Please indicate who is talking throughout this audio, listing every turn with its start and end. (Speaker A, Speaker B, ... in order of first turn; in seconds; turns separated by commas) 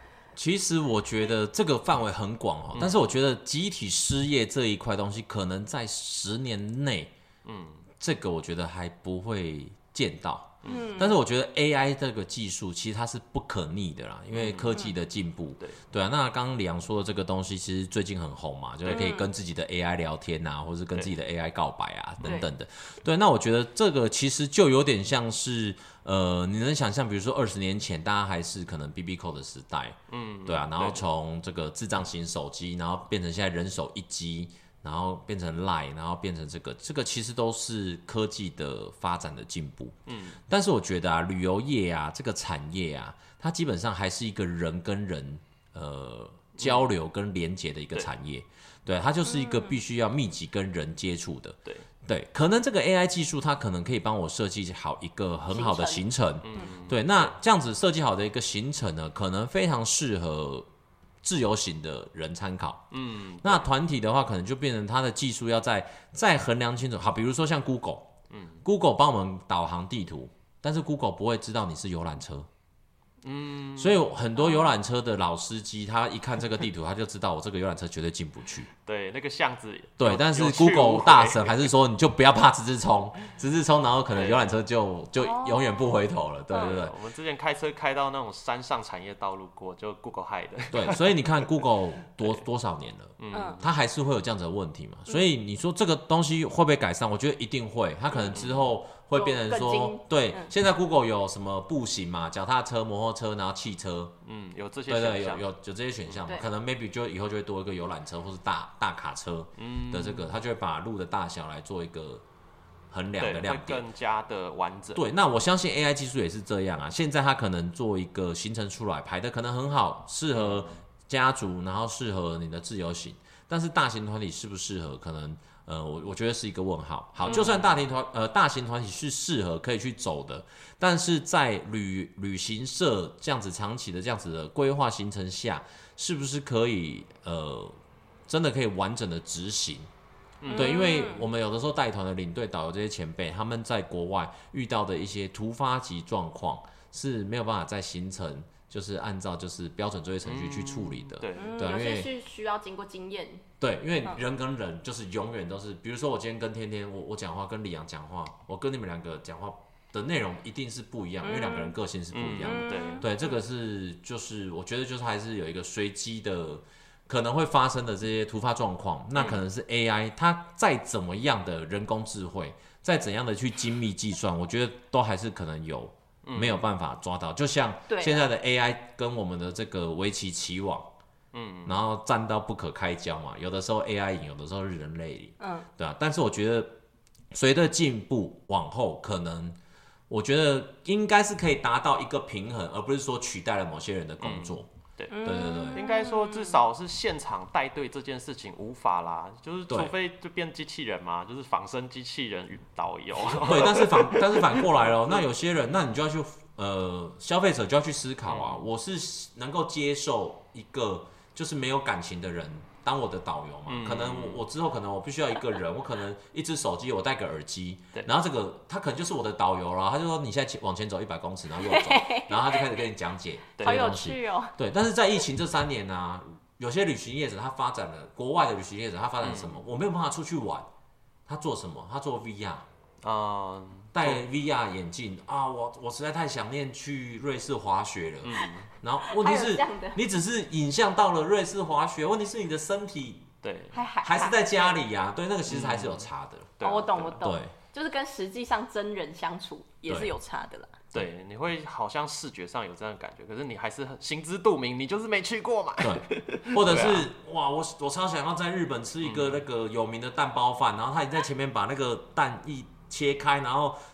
Speaker A: 0.3-7.1, Speaker B: 2.7-3.0, Speaker B: 7.4-7.9, Speaker A: 8.0-40.0, Speaker B: 10.6-10.9, Speaker C: 10.7-11.2, Speaker B: 14.3-14.8, Speaker B: 18.8-19.1, Speaker C: 18.9-19.3, Speaker C: 22.2-22.5, Speaker B: 30.1-31.0, Speaker B: 40.1-40.4, Speaker A: 40.5-60.7, Speaker B: 46.6-46.9, Speaker C: 49.2-49.8, Speaker C: 55.5-56.0, Speaker B: 56.4-57.3, Speaker A: 61.2-62.9, Speaker B: 62.9-63.7, Speaker A: 63.4-68.1, Speaker B: 68.3-68.6, Speaker A: 68.6-72.5, Speaker B: 73.2-74.1, Speaker A: 73.8-78.7, Speaker B: 78.8-81.7, Speaker A: 80.0-86.9, Speaker B: 84.1-84.6, Speaker C: 85.2-86.8, Speaker B: 86.5-91.7, Speaker A: 90.7-104.1, Speaker B: 93.2-93.7, Speaker C: 93.3-93.6, Speaker B: 98.3-98.7, Speaker C: 99.1-100.5, Speaker B: 104.2-105.4, Speaker A: 104.9-112.2, Speaker B: 109.6-110.3, Speaker A: 112.9-113.8, Speaker B: 113.2-115.0, Speaker A: 114.9-137.8, Speaker B: 120.3-120.8, Speaker B: 127.2-127.7, Speaker A: 138.3-139.9, Speaker B: 140.4-141.0, Speaker C: 140.5-141.2, Speaker A: 140.5-152.1, Speaker B: 150.2-151.8, Speaker C: 151.3-153.4, Speaker A: 153.6-180.9, Speaker C: 161.2-161.8, Speaker B: 162.1-163.1, Speaker C: 162.4-163.3, Speaker B: 169.2-169.4, Speaker B: 176.2-176.7, Speaker C: 177.9-178.3, Speaker B: 181.3-181.8, Speaker A: 181.6-186.8, Speaker C: 185.4-185.7, Speaker A: 187.3-189.6, Speaker A: 190.1-194.7, Speaker B: 194.2-205.2, Speaker C: 195.1-196.6, Speaker A: 195.2-195.8, Speaker A: 199.7-199.9, Speaker A: 203.4-230.7, Speaker B: 208.2-208.7, Speaker B: 213.7-214.4, Speaker C: 221.6-222.6, Speaker B: 223.6-223.9, Speaker C: 223.6-224.6, Speaker B: 229.2-229.6, Speaker A: 231.3-232.7, Speaker B: 233.0-234.2, Speaker A: 233.9-243.3, Speaker B: 238.2-238.7, Speaker C: 239.0-240.0, Speaker B: 243.4-243.8, Speaker C: 243.7-244.8, Speaker A: 244.0-246.6, Speaker B: 245.5-247.2, Speaker C: 246.6-250.8, Speaker A: 247.2-247.5, Speaker B: 250.9-257.1, Speaker A: 255.8-263.8, Speaker B: 259.0-259.4